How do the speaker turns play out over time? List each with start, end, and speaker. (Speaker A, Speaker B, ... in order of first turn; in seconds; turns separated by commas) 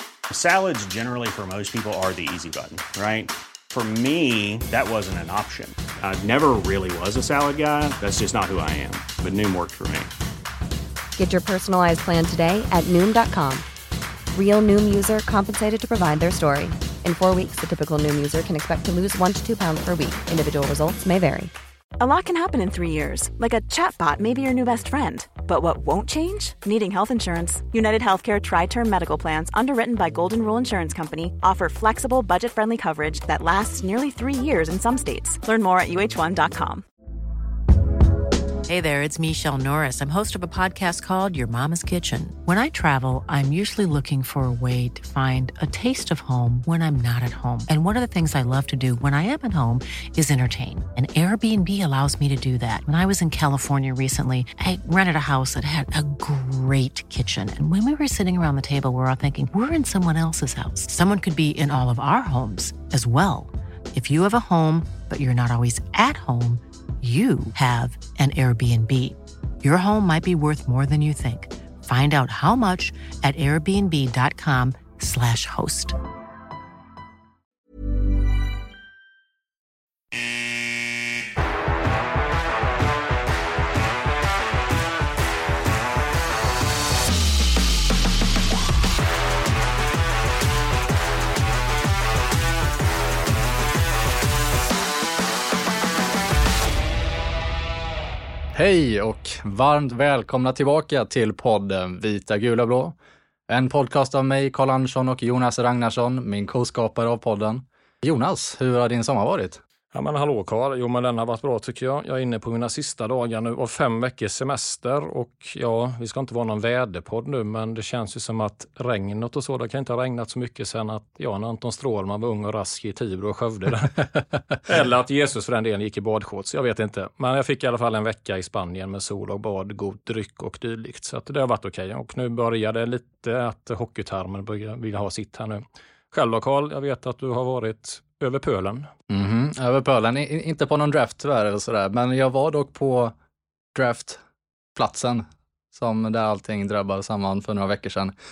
Speaker A: 0.3-10.1, Speaker B: 11.2-13.7, Speaker B: 14.3-21.5, Speaker C: 22.0-36.8, Speaker D: 38.6-76.0, Speaker E: 98.5-103.0, Speaker E: 103.5-109.6, Speaker F: 109.9-138.9, Speaker E: 139.1-143.1, Speaker E: 143.7-144.2, Speaker E: 144.7-148.1